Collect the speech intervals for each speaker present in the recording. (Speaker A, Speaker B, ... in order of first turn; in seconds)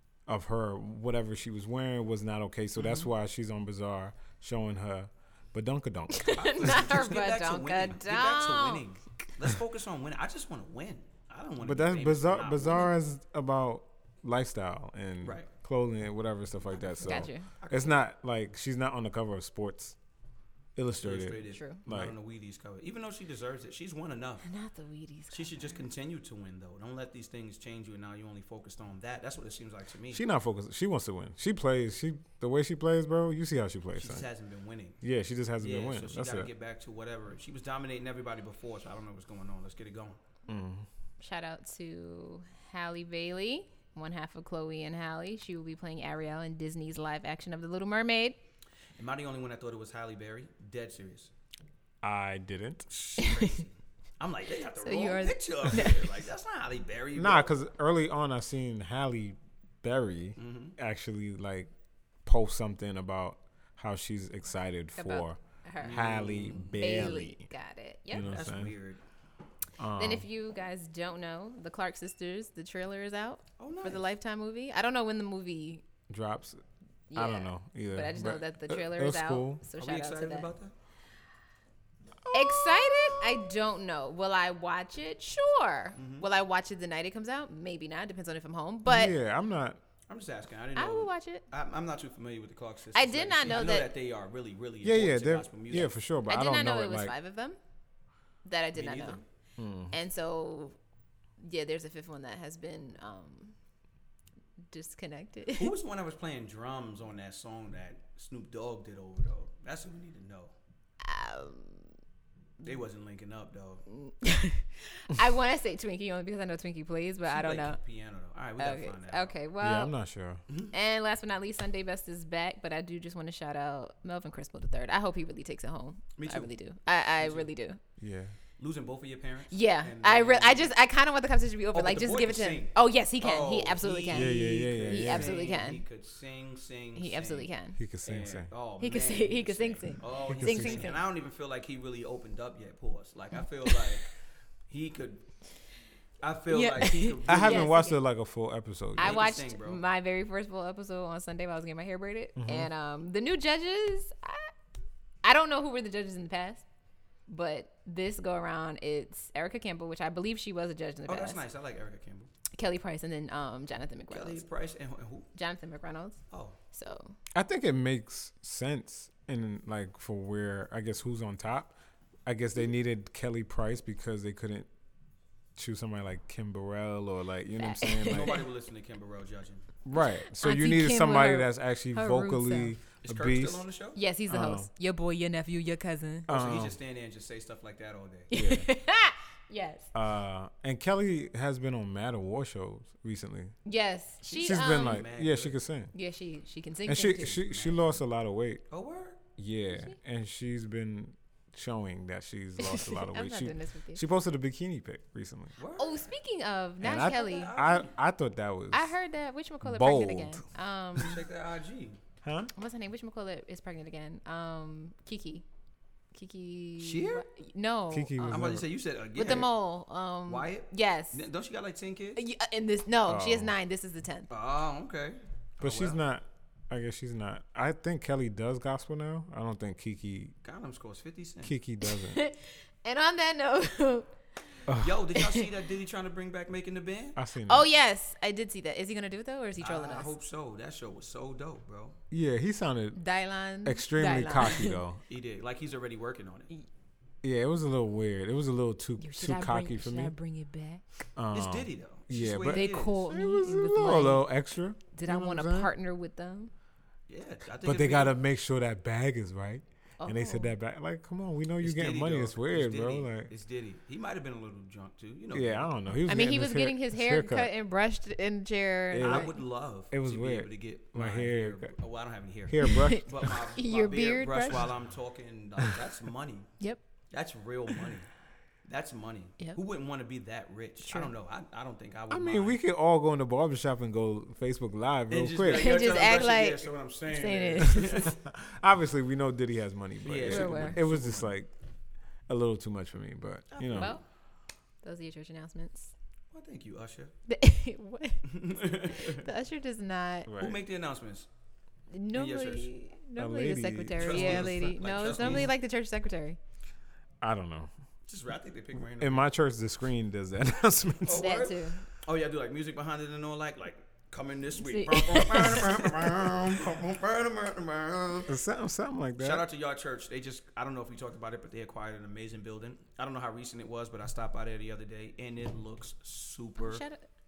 Speaker A: 0.3-6.8, 11.6-19.9, 20.8-22.1, 30.1-34.2, 35.0-36.5, 40.5-40.9, 52.0-52.9, 57.1-61.7, 62.2-67.5, 68.1-68.7, 69.8-70.2, 76.1-76.6, 77.1-79.6, 82.2-83.5, 88.8-89.8, 94.8-97.1, 99.6-100.0, 119.6-120.4, 128.0-128.3, 134.1-135.5, 137.8-138.5, 140.3-140.9, 147.2-149.3, 152.3-152.7, 167.3-171.7, 172.2-174.7, 175.6-178.4, 179.8-183.7, 184.3-184.7, 186.3-186.8, 188.3-188.7, 189.9-193.5, 194.3-195.9, 196.9-198.6, 199.4-205.5, 206.8-208.9, 209.6-210.4, 212.2-212.5, 217.9-218.6, 223.1-223.5, 225.6-230.3, 231.4-232.2, 234.7-235.0, 237.2-237.7, 242.1-243.0, 243.6-245.0, 247.2-250.1, 251.2-255.7, 257.6-263.3, 265.3-267.5, 268.9-269.3, 269.9-271.7, 272.5-273.4, 282.1-285.8, 288.0-291.5, 292.3-293.9, 300.3-300.6, 303.2-305.5, 307.2-307.7, 308.8-311.4, 315.5-316.7, 318.2-319.4
Speaker B: 2.8-3.1, 6.3-12.9, 15.2-15.5, 16.6-18.0, 21.0-24.4, 25.3-30.2, 34.0-35.0, 35.6-40.2, 49.0-51.3, 52.9-57.5, 60.4-60.8, 65.8-67.2, 68.2-69.0, 73.6-74.0, 79.8-80.7, 86.0-86.3, 90.1-95.9, 98.7-99.2, 105.5-110.5, 112.6-113.8, 117.2-119.3, 120.5-120.7, 126.2-126.5, 127.2-127.5, 128.6-130.7, 131.7-137.5, 138.0-144.1, 144.7-145.2, 146.2-147.7, 149.0-149.8, 161.1-162.3, 164.1-165.3, 166.3-166.6, 178.1-179.7, 183.0-184.0, 186.3-188.3, 194.3-195.6, 197.2-198.0, 198.7-199.2, 205.6-206.1, 206.9-207.9, 211.0-212.0, 216.8-217.2, 218.3-219.5, 220.3-222.2, 224.3-226.0, 230.4-231.5, 234.8-237.2, 239.6-242.0, 245.1-246.5, 251.3-253.0, 257.1-258.2, 261.6-265.7, 269.0-276.5, 277.1-278.1, 278.6-282.6, 285.1-288.1, 290.0-291.3, 293.5-294.0, 296.3-297.1, 298.2-299.2, 300.4-301.3, 302.1-302.7, 304.0-305.5, 308.1-309.3, 311.0-318.3, 319.2-326.8
Speaker C: 6.1-8.8, 17.0-17.5, 21.5-21.8, 24.4-25.8, 41.2-48.4, 53.2-53.5, 54.8-56.1, 65.0-66.0, 66.8-68.3, 70.0-75.8, 77.1-80.5, 82.3-89.1, 90.8-91.4, 92.9-93.9, 96.2-97.6, 98.4-99.2, 99.9-100.8, 101.4-103.5, 104.7-105.7, 111.0-111.9, 113.9-117.8, 118.6-119.9, 120.7-127.8, 129.5-135.8, 136.9-137.8, 138.8-141.0, 143.6-144.0, 146.5-148.0, 149.0-154.5, 155.2-156.6, 157.3-161.4, 162.5-164.4, 165.3-166.2, 166.7-167.2, 177.6-178.4, 179.9-182.8, 183.9-186.3, 188.3-189.9, 193.7-195.1, 195.9-197.4, 199.7-199.9, 202.6-204.0, 205.8-207.5, 208.7-211.2, 212.5-215.4, 216.1-218.6, 219.2-221.2, 222.2-224.3, 231.8-234.1, 235.1-235.5, 237.5-240.1, 242.9-244.8, 249.0-250.8, 252.5-254.3, 254.9-256.5, 260.0-260.5, 266.1-269.3, 272.6-274.7, 280.8-281.1, 285.5-288.1, 290.3-290.8, 293.7-294.0, 294.8-295.9, 297.3-298.3, 298.9-300.3, 301.9-306.4, 311.1-311.9, 314.6-315.8, 326.6-327.0